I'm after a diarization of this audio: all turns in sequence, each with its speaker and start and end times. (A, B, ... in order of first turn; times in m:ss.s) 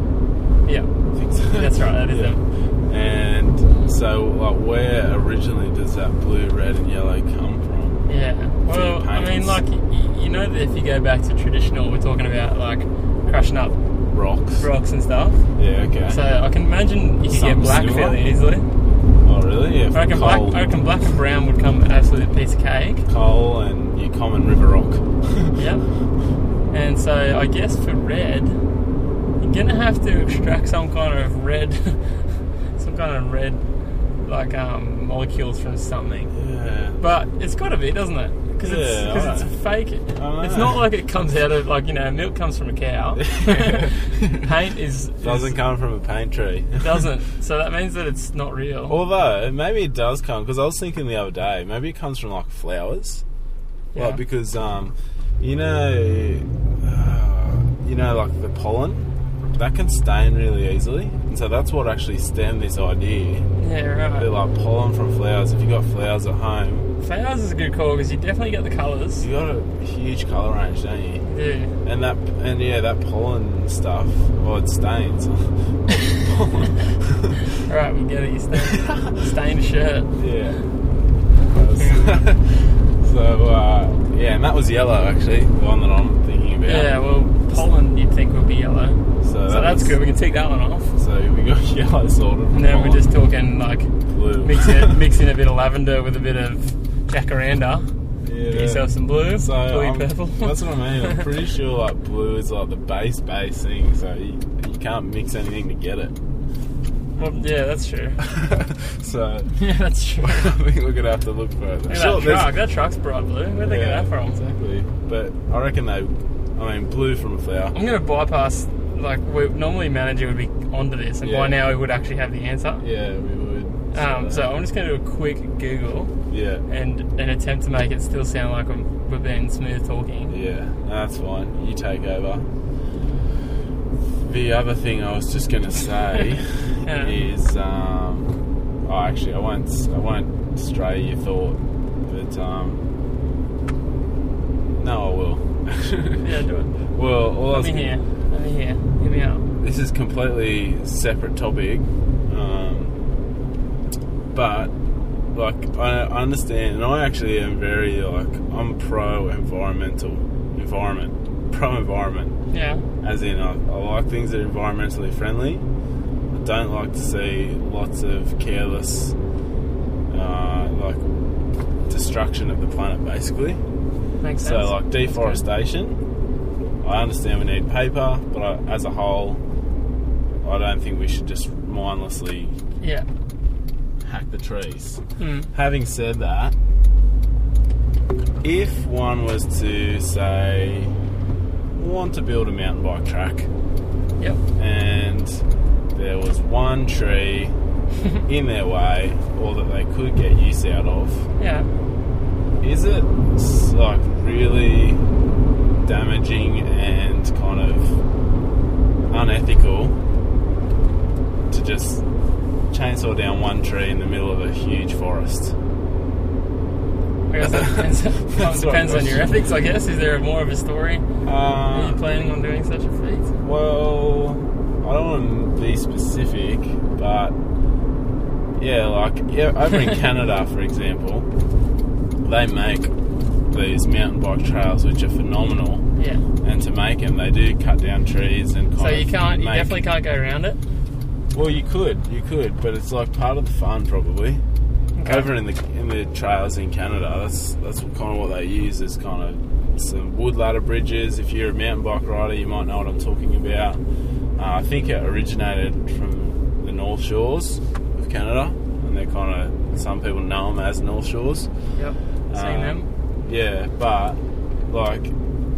0:01.2-0:02.4 A
0:01.5-0:02.4 B
0:02.9-0:08.0 A
0:08.1-0:13.8 B
0:08.7-0:09.6 A
0:14.1-0:14.7 A
0:14.6-0:15.4 B
0:15.6-0:16.2 A
0:16.1-0:18.7 B
0:17.3-0:18.2 A
0:19.2-0:20.6 A
0:19.9-0:23.1 B
0:23.1-0:25.6 A
0:25.6-0:25.8 B
0:26.7-0:28.6 B
0:29.4-0:32.2 B
0:32.8-0:33.6 B
0:34.2-0:36.3 B
0:36.3-0:37.0 A
0:37.0-0:45.5 B
0:38.6-0:39.5 A
0:40.2-0:40.8 A
0:43.2-0:44.5 A
0:45.2-0:47.0 A
0:46.8-0:49.0 B
0:48.9-0:53.2 A
0:53.9-0:54.2 B
0:54.0-1:03.5 A
1:03.6-1:04.3 B
1:04.2-1:06.9 A
1:07.0-1:09.2 B
1:09.2-1:11.2 A
1:11.2-1:11.7 B
1:11.8-1:17.4 A
1:17.6-1:20.1 B
1:18.6-1:19.1 A
1:20.2-1:20.6 A
1:21.5-1:26.9 A
1:21.8-1:22.2 B
1:26.7-1:30.9 B
1:29.2-1:30.0 A
1:31.0-1:33.1 A
1:32.5-1:33.9 B
1:34.1-1:35.0 A
1:34.4-1:37.9 B
1:38.2-1:46.2 A
1:38.5-1:41.2 B
1:47.2-1:48.2 B
1:48.2-1:49.6 A
1:49.5-1:50.5 B
1:50.2-1:52.5 A
1:51.9-1:54.4 B
1:53.6-1:57.8 A
1:57.7-2:02.8 B
2:01.2-2:01.6 A
2:02.8-2:04.5 A
2:03.9-2:06.1 B
2:06.3-2:06.6 A
2:06.7-2:10.3 B
2:10.3-2:12.5 A
2:14.2-2:22.8 A
2:16.8-2:17.2 B
2:24.8-2:26.3 A
2:26.2-2:26.7 B
2:27.0-2:28.0 A
2:27.5-2:29.5 B
2:29.6-2:32.9 A
2:34.3-2:34.7 A
2:35.3-2:42.4 A
2:42.5-2:42.8 B
2:43.0-2:45.6 A
2:46.3-2:49.2 A
2:50.1-2:51.3 A
2:51.9-2:53.6 A
2:54.2-2:55.4 B
2:54.4-2:56.0 A
2:56.8-2:59.4 A
3:00.4-3:02.6 A
3:02.8-3:03.1 B
3:04.0-3:05.0 A
3:05.2-3:05.5 B
3:05.5-3:06.6 A
3:08.4-3:11.0 A
3:11.8-3:13.5 A
3:14.6-3:15.4 A
3:16.0-3:17.6 A
3:18.2-3:21.3 A
3:21.4-3:21.7 B
3:22.6-3:25.0 A
3:25.8-3:28.0 A
3:29.1-3:30.0 A
3:31.5-3:32.0 A
3:32.7-3:35.6 A
3:37.3-3:41.0 B
3:37.4-3:39.3 A
3:41.2-3:42.0 A
3:41.7-3:43.3 B
3:43.4-3:47.4 A
3:48.6-3:51.3 A
3:52.2-3:52.9 A
3:53.5-3:55.8 A
3:56.0-3:56.2 B
3:56.4-3:59.8 A
3:58.8-4:00.6 B
4:01.3-4:04.4 A
4:05.0-4:05.3 B
4:05.0-4:13.8 A
4:14.4-4:21.5 A
4:21.8-4:22.9 B
4:22.3-4:24.2 A
4:24.7-4:25.1 A